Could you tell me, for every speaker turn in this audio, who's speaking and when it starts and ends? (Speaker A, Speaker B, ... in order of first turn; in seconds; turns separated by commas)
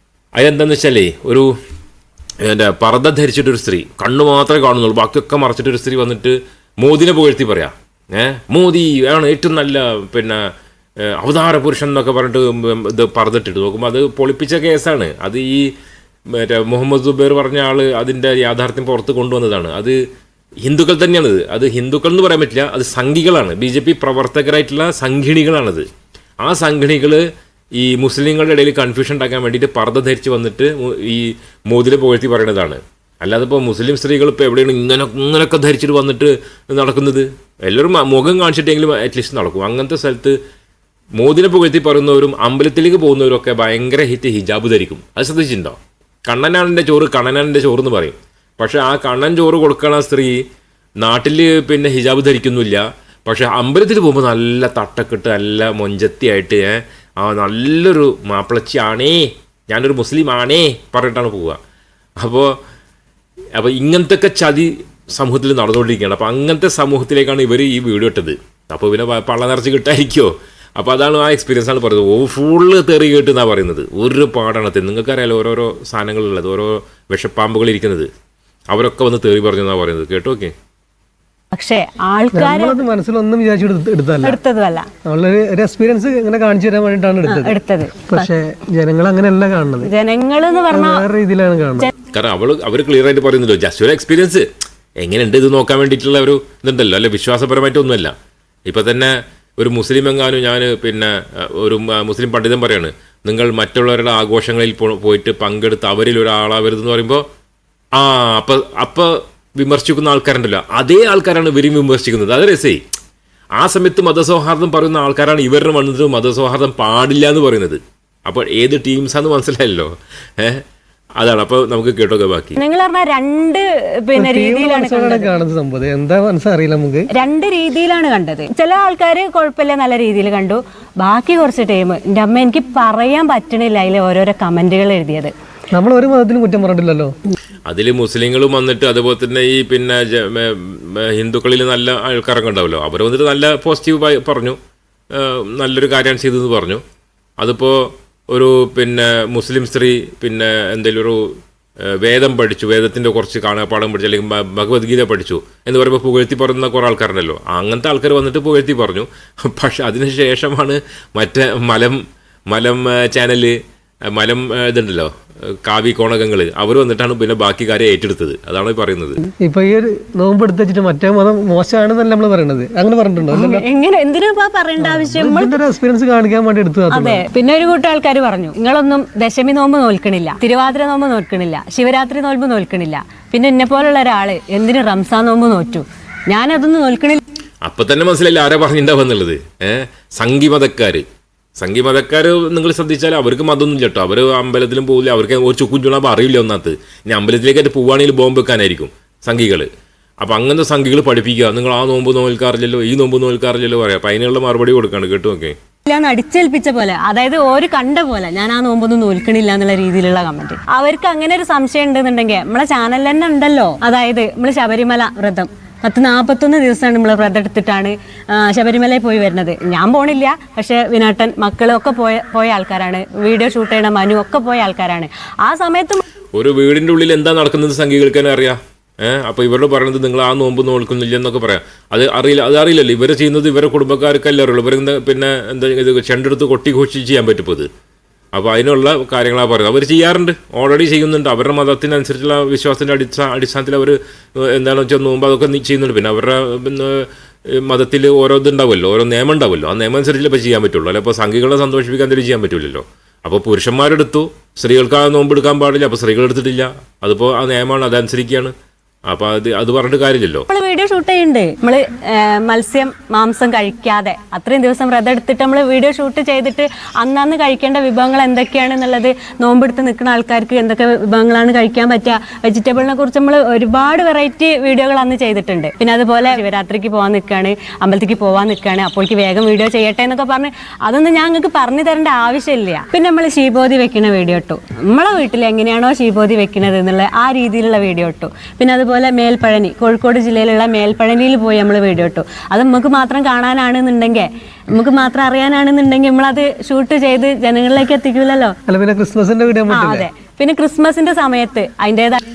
Speaker A: 0.3-1.5, Speaker A: 2.4-15.7, Speaker A: 16.3-20.0, Speaker A: 20.6-25.9, Speaker A: 26.4-40.4, Speaker A: 41.1-50.4, Speaker A: 51.0-61.6, Speaker A: 62.2-62.5, Speaker A: 63.5-78.1, Speaker A: 78.7-80.5, Speaker B: 81.5-82.8, Speaker C: 82.3-84.4, Speaker B: 84.2-84.9, Speaker C: 85.0-89.9, Speaker B: 87.2-88.3, Speaker B: 89.8-91.0, Speaker C: 90.7-91.9, Speaker A: 92.1-94.5, Speaker A: 95.0-98.1, Speaker A: 98.7-107.2, Speaker A: 107.9-112.8, Speaker A: 113.5-120.6, Speaker A: 121.2-122.6, Speaker B: 122.5-125.3, Speaker C: 124.2-127.1, Speaker B: 127.1-135.3, Speaker C: 135.7-137.1, Speaker A: 137.7-144.6, Speaker A: 145.1-146.8, Speaker A: 147.4-169.2, Speaker C: 169.2-173.6, Speaker B: 173.3-175.6, Speaker C: 174.8-177.2, Speaker B: 176.9-187.2, Speaker A: 187.6-191.0, Speaker A: 191.6-199.7, Speaker A: 200.2-205.6, Speaker B: 205.8-226.0, Speaker A: 226.3-237.7, Speaker A: 238.3-258.5, Speaker A: 259.1-260.5, Speaker B: 260.5-298.6, Speaker C: 298.7-300.1, Speaker B: 299.7-302.2